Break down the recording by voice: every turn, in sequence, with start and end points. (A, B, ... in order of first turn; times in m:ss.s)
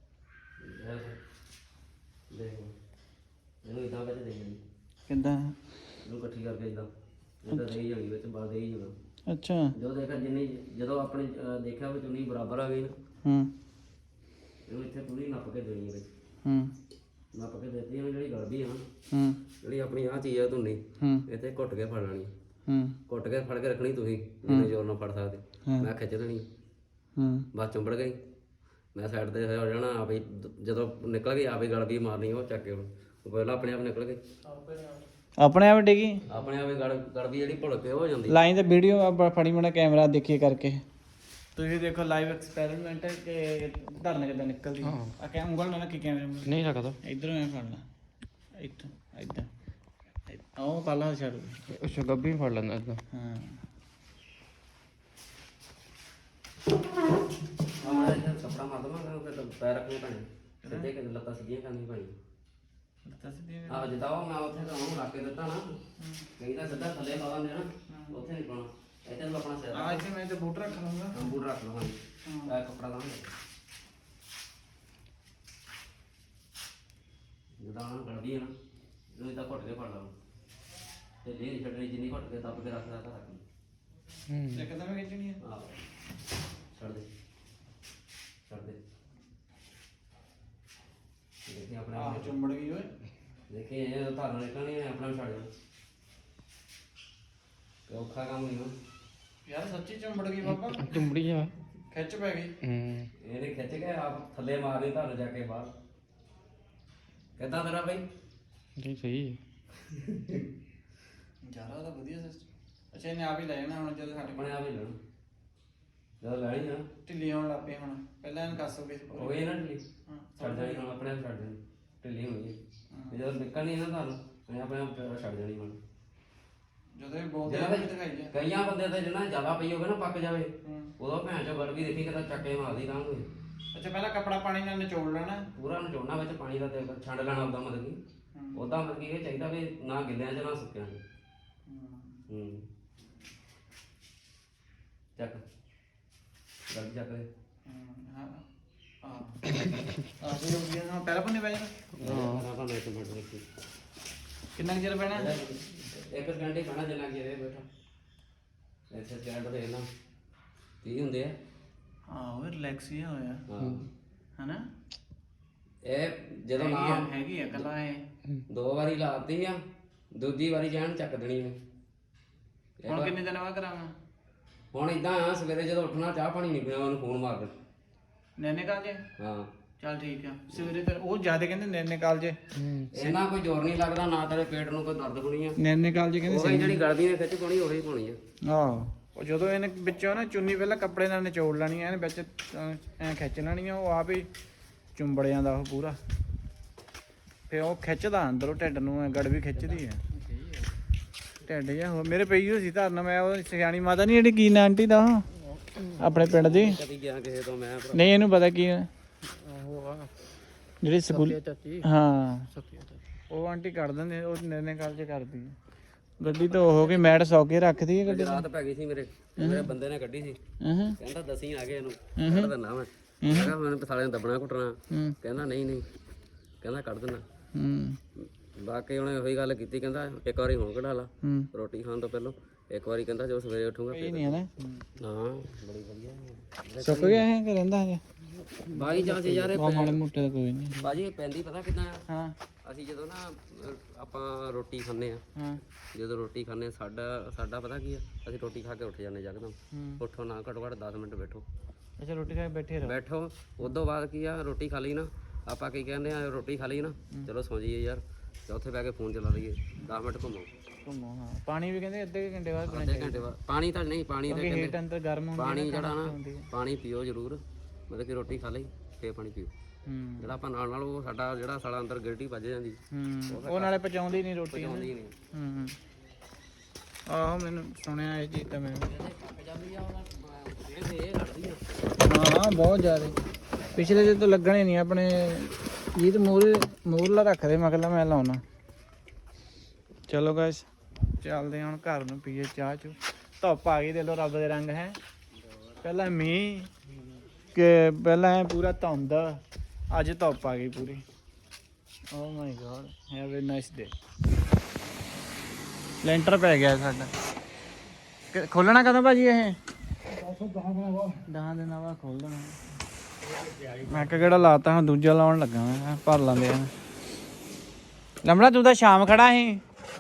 0:00.6-0:01.2 A
0:02.3-0:02.7 A
0:03.6-0:04.6 A
0:05.1-0:05.5 B
0:06.0-0:06.9 A
0:07.4-0:09.0 A
0:09.3-0:09.7 B
0:09.8-0:12.9 A
0:13.2-0:13.5 B
0:14.7-0:16.0 A
0:16.4-0:16.7 B
0:17.3-0:18.8 A
0:19.1-0:19.4 B
0:19.6-0:22.3 A
0:22.7-0:23.0 B
0:23.1-0:26.5 A
0:24.5-0:24.7 B
0:27.2-0:27.4 B
0:27.5-0:28.2 A
0:29.0-0:34.2 A
0:35.4-0:36.2 B
0:36.3-0:38.4 A
0:38.3-0:40.8 B
0:41.6-0:47.8 B
0:44.8-0:45.1 C
0:46.4-0:47.0 C
0:48.6-0:49.5 B
0:50.3-0:51.6 B
0:51.7-0:53.0 C
0:53.1-0:53.6 B
0:57.8-1:02.2 A
1:00.6-1:00.9 B
1:03.0-1:03.9 B
1:03.7-1:05.7 A
1:06.0-1:06.3 B
1:06.4-1:10.1 A
1:07.9-1:08.2 B
1:09.7-1:11.3 B
1:11.1-1:13.3 A
1:12.2-1:12.5 B
1:17.6-1:18.5 A
1:19.2-1:20.1 A
1:21.2-1:23.4 A
1:24.3-1:24.6 C
1:24.5-1:25.4 B
1:25.4-1:25.7 A
1:26.8-1:27.1 A
1:28.5-1:28.8 A
1:31.5-1:32.4 A
1:32.0-1:32.9 B
1:33.5-1:35.5 A
1:37.9-1:38.7 A
1:39.5-1:41.1 B
1:40.4-1:41.5 C
1:41.9-1:42.5 B
1:42.6-1:43.1 C
1:43.2-1:45.7 A
1:47.4-1:48.1 A
1:48.8-1:49.4 C
1:49.9-1:50.4 A
1:51.4-1:54.5 B
1:54.3-1:55.0 A
1:56.2-1:56.9 A
1:57.0-1:59.4 B
1:59.1-1:59.8 A
2:00.1-2:00.9 B
2:00.4-2:02.6 A
2:02.9-2:03.2 B
2:03.1-2:05.8 A
2:07.0-2:08.3 B
2:07.4-2:13.3 A
2:10.6-2:10.9 B
2:13.7-2:15.4 B
2:15.5-2:18.0 A
2:18.3-2:18.6 B
2:18.5-2:21.0 A
2:21.7-2:22.2 B
2:22.3-2:22.6 A
2:25.2-2:25.4 A
2:26.7-2:27.3 A
2:27.7-2:28.4 B
2:29.0-2:29.4 B
2:30.1-2:31.7 B
2:32.0-2:33.4 A
2:32.0-2:32.4 C
2:34.5-2:35.3 B
2:35.1-2:37.7 A
2:38.9-2:39.8 A
2:40.8-2:41.4 A
2:42.1-2:43.4 B
2:43.5-2:43.9 A
2:44.4-2:44.7 B
2:45.8-2:47.7 A
2:46.6-2:48.0 B
2:48.5-2:49.6 A
2:50.1-2:51.6 A
2:52.8-2:53.1 A
2:52.9-2:53.9 B
2:54.7-2:57.5 A
2:58.4-2:59.0 B
2:59.2-2:59.5 A
2:59.8-3:02.4 B
3:02.6-3:02.9 C
3:02.9-3:05.6 A
3:05.6-3:06.8 B
3:06.2-3:08.2 A
3:08.4-3:14.3 B
3:15.0-3:16.0 B
3:17.5-3:20.0 B
3:21.4-3:25.2 B
3:25.8-3:26.0 C
3:26.0-3:26.8 B
3:26.3-3:28.2 A
3:27.9-3:28.9 B
3:29.3-3:30.1 C
3:30.8-3:32.5 B
3:31.1-3:31.8 C
3:32.5-3:32.9 C
3:33.3-3:35.6 B
3:36.2-3:38.4 B
3:36.2-3:37.2 A
3:38.0-3:40.4 A
3:39.4-3:39.7 B
3:40.6-3:41.0 B
3:41.0-3:45.8 A
3:42.2-3:42.5 B
3:43.2-3:43.5 B
3:46.6-3:47.2 A
3:47.5-3:48.0 B
3:48.2-3:54.4 A
3:51.2-3:51.5 B
3:53.9-3:54.8 B
3:55.0-3:57.2 A
3:56.8-3:58.0 B
3:58.7-4:00.0 A
3:59.5-4:00.9 B
4:00.8-4:02.0 A
4:02.1-4:02.3 B
4:02.6-4:05.2 A
4:05.9-4:11.4 A
4:09.7-4:10.0 B
4:12.0-4:12.9 B
4:12.8-4:20.5 A
4:20.8-4:23.3 B
4:22.6-4:24.8 A
4:24.3-4:26.5 B
4:25.4-4:29.5 A
4:29.9-4:30.3 B
4:30.2-4:33.8 A
4:32.9-4:35.8 B
4:34.5-4:35.1 A
4:37.1-4:38.9 B
4:38.9-4:42.0 A
4:42.0-4:43.2 B
4:43.8-4:48.4 B
4:50.1-4:50.7 B
4:51.2-4:55.0 B
4:55.8-4:56.7 B
4:57.6-5:01.0 B
5:02.1-5:03.9 B
5:06.0-5:07.1 B
5:08.3-5:09.6 B
5:11.2-5:12.6 B
5:13.8-5:16.7 B
5:18.2-5:19.6 B